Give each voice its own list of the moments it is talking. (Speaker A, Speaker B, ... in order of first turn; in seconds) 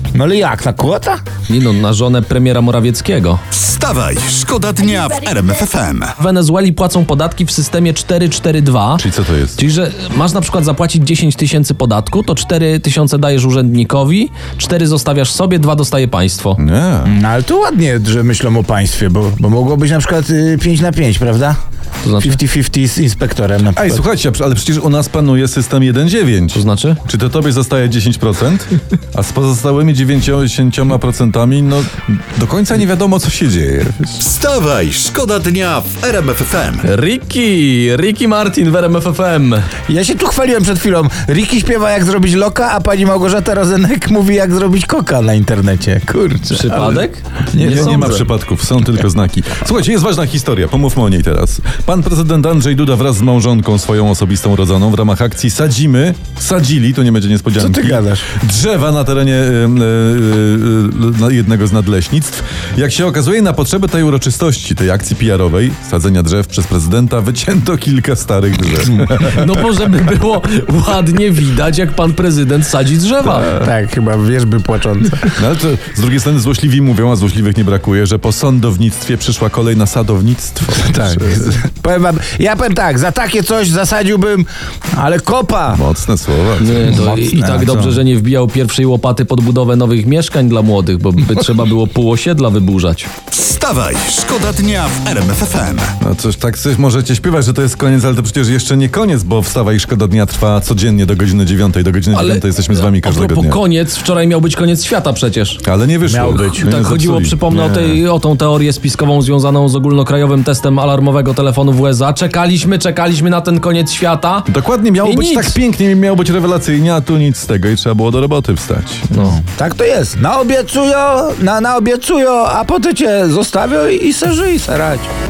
Speaker A: 0.1-1.2, 17.1-21.6, 22.2-24.0, 39.9-47.0, 47.5-48.2, 57.5-58.3, 73.3-75.4, 80.8-85.8, 86.8-88.0, 106.0-106.7, 119.3-125.1
Speaker B: 1.5-3.4, 6.2-16.6, 22.0-22.4, 26.5-27.0, 36.8-39.7, 46.5-48.3, 69.2-73.5, 86.6-93.1, 102.1-105.6, 106.6-114.5, 115.0-115.6, 119.1-119.4
Speaker C: 3.5-6.1, 34.2-36.9, 93.3-96.0
Speaker D: 9.0-9.6, 16.6-17.1, 23.7-34.2, 47.6-69.7, 75.3-81.6, 85.7-86.9, 96.0-103.6, 105.6-108.0, 114.5-119.1